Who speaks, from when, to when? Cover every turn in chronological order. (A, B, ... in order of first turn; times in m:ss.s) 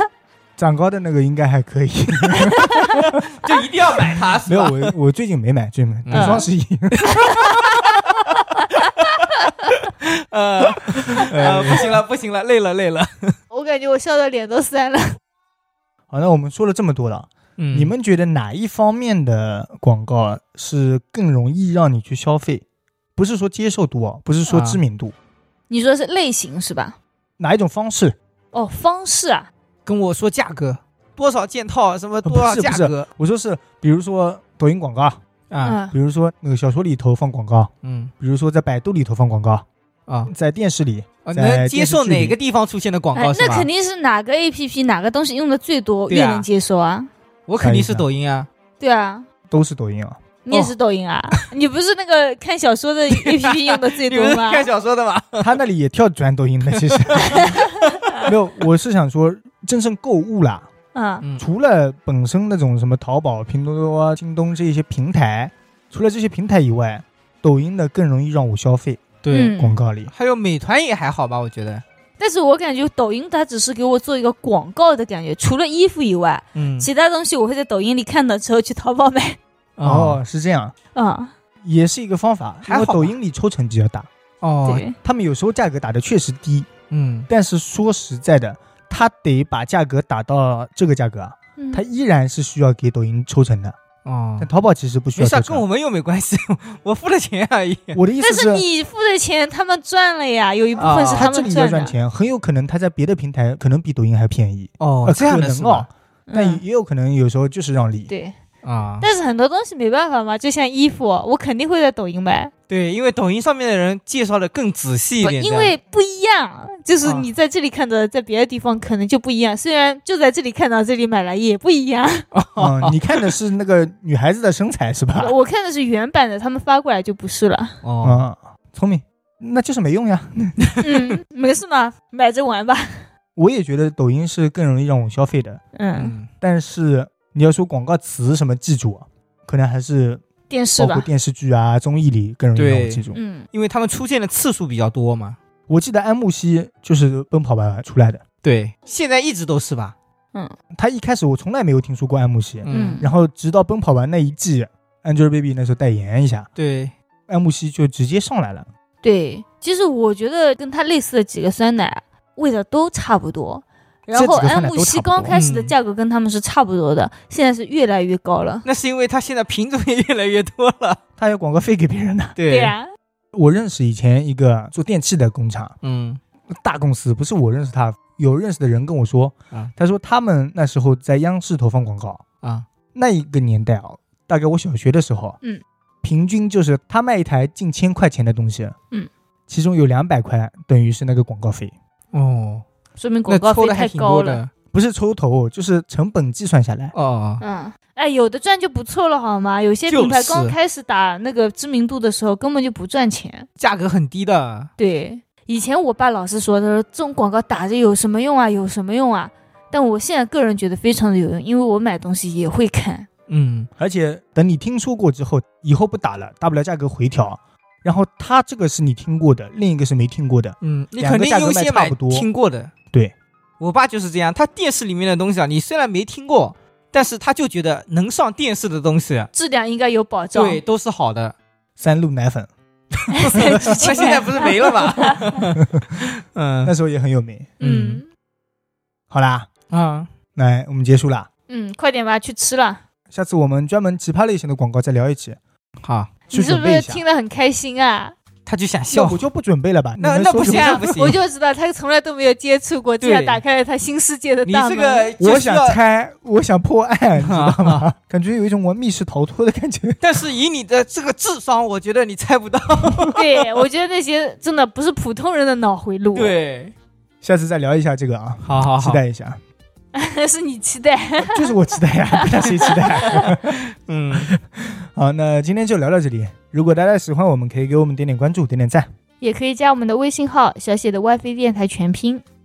0:00.6-0:03.2 A
0:02.4-0:03.0 B
0:03.0-0:04.9 C
0:04.0-0:07.3 A
0:06.0-0:13.4 C
0:06.1-0:06.5 B
0:07.3-0:07.8 B
0:11.3-0:12.0 A
0:13.5-0:15.2 B
0:16.1-0:22.6 A
0:17.6-0:17.9 C
0:23.2-0:25.1 A
0:24.5-0:24.8 C
0:25.7-0:27.0 B
0:27.4-0:28.2 A
0:28.5-0:29.5 B
0:29.8-0:33.1 C
0:32.2-0:35.2 A
0:35.5-0:35.8 C
0:35.6-0:35.9 B
0:35.9-0:39.6 A
0:37.8-0:38.1 C
0:40.3-0:42.4 A
0:41.2-0:43.7 C
0:43.1-0:47.1 B
0:46.1-0:46.5 C
0:47.5-0:48.5 C
0:47.6-0:48.0 A
0:48.8-0:49.2 B
0:49.5-0:50.2 A
0:50.4-0:54.7 B
0:53.1-0:55.5 C
0:55.4-0:57.6 A
0:56.8-0:58.3 C
0:58.2-1:00.7 A
1:00.9-1:01.2 B
1:01.4-1:10.1 A
1:09.2-1:09.6 C
1:09.3-1:09.8 B
1:10.1-1:11.8 C
1:12.2-1:19.4 B
1:16.5-1:16.9 C
1:19.8-1:20.2 C
1:19.8-1:20.7 A
1:20.9-1:21.3 B
1:21.6-1:24.1 A
1:22.6-1:23.1 C
1:24.4-1:24.8 C
1:24.6-1:25.0 B
1:25.0-1:26.7 A
1:26.9-1:27.3 C
1:27.3-1:33.8 A
1:31.6-1:31.8 B
1:34.0-1:34.5 C
1:34.4-1:35.6 A
1:35.2-1:38.0 C
1:37.9-1:38.6 A
1:38.2-1:42.0 B
1:40.8-1:41.3 C
1:40.9-1:48.1 A
1:44.8-1:45.9 C
1:46.3-1:46.6 B
1:48.1-1:48.4 B
1:48.6-1:49.1 C
1:49.0-1:52.5 B
1:52.7-1:55.7 C
1:55.2-2:02.2 B
2:02.3-2:03.0 C
2:02.6-2:05.3 A
2:05.2-2:07.8 B
2:07.8-2:08.2 C
2:08.0-2:10.8 A
2:10.8-2:13.1 B
2:13.4-2:15.6 A
2:15.7-2:16.1 B
2:16.0-2:16.3 C
2:16.4-2:20.2 A
2:20.5-2:21.1 B
2:20.8-2:23.2 A
2:22.6-2:25.4 C
2:23.1-2:23.5 B
2:25.7-2:28.2 A
2:28.4-2:29.9 C
2:30.7-2:36.5 A
2:32.6-2:33.0 C
2:32.7-2:33.1 B
2:36.6-2:36.9 C
2:37.3-2:38.7 A
2:39.0-2:48.6 B
2:44.1-2:45.3 A
2:45.3-2:45.7 C
2:48.6-2:51.0 C
2:51.2-2:52.4 A
2:52.4-2:52.8 C
2:52.5-2:52.9 B
2:53.3-2:55.7 A
2:55.8-2:56.2 C
2:56.5-3:02.2 A
3:02.9-3:05.4 A
3:06.0-3:08.7 A
3:09.5-3:11.7 A
3:12.1-3:12.6 C
3:13.0-3:14.4 B
3:13.3-3:14.5 C
3:14.7-3:16.9 A
3:16.9-3:17.4 C
3:17.4-3:23.4 B
3:19.9-3:20.6 C
3:23.6-3:24.7 C
3:24.8-3:33.1 B
3:33.3-3:33.7 C
3:33.8-3:42.3 A
3:40.6-3:42.7 C
3:43.6-3:49.3 C
3:49.3-3:50.6 B
3:50.3-3:51.3 C
3:51.8-3:52.5 A
3:53.0-3:56.7 C
3:53.1-3:55.2 B
3:53.3-3:54.2 A
3:55.6-3:56.0 A
3:56.6-3:57.6 A
3:57.6-3:58.0 C
3:57.6-3:58.1 B
3:59.1-3:59.5 A
3:59.7-4:00.1 C
4:00.4-4:01.3 A
4:01.5-4:02.8 B
4:03.1-4:05.4 A
4:05.8-4:06.1 C
4:06.3-4:07.0 A
4:06.3-4:08.1 B
4:08.4-4:09.2 C
4:08.9-4:10.9 A
4:10.0-4:11.2 C
4:10.4-4:15.1 B
4:13.0-4:13.4 C
4:14.5-4:15.8 C
4:15.2-4:20.2 A
4:17.2-4:17.9 C
4:20.0-4:23.3 C
4:23.1-4:26.3 B
4:26.1-4:26.7 C
4:27.2-4:29.4 A
4:28.4-4:29.0 C
4:29.9-4:31.5 B
4:31.2-4:33.6 A
4:32.1-4:33.2 B
4:33.1-4:34.3 C
4:34.1-4:38.9 A
4:39.2-4:42.2 B